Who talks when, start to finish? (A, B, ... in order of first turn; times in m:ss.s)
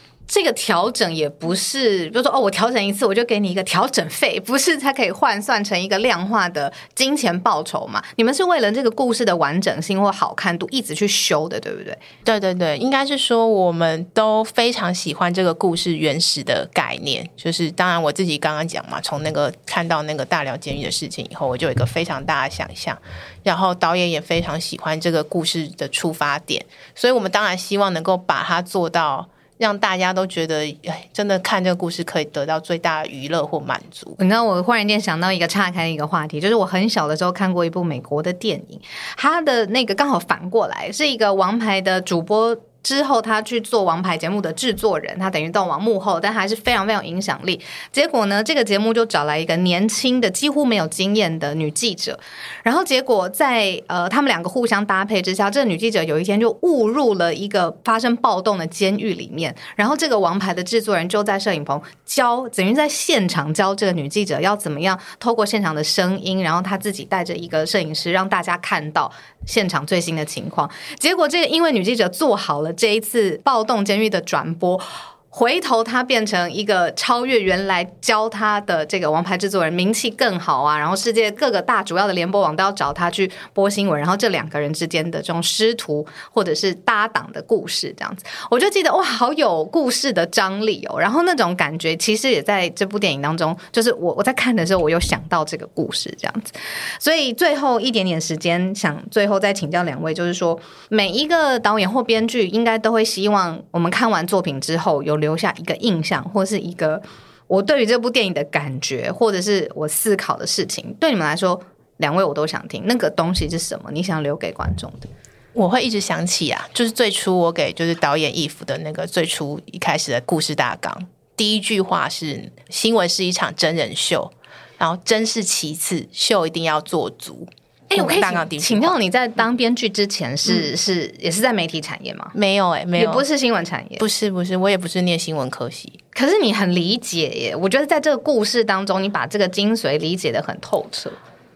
0:00.3-0:12.0 A
0:12.2-0:34.2 B
0:34.2-1:55.1 A
1:55.6-2:09.0 B
2:07.9-2:12.4 A
2:12.4-2:13.3 B
2:13.0-2:14.0 A
2:14.0-2:16.0 B
2:16.1-2:21.2 A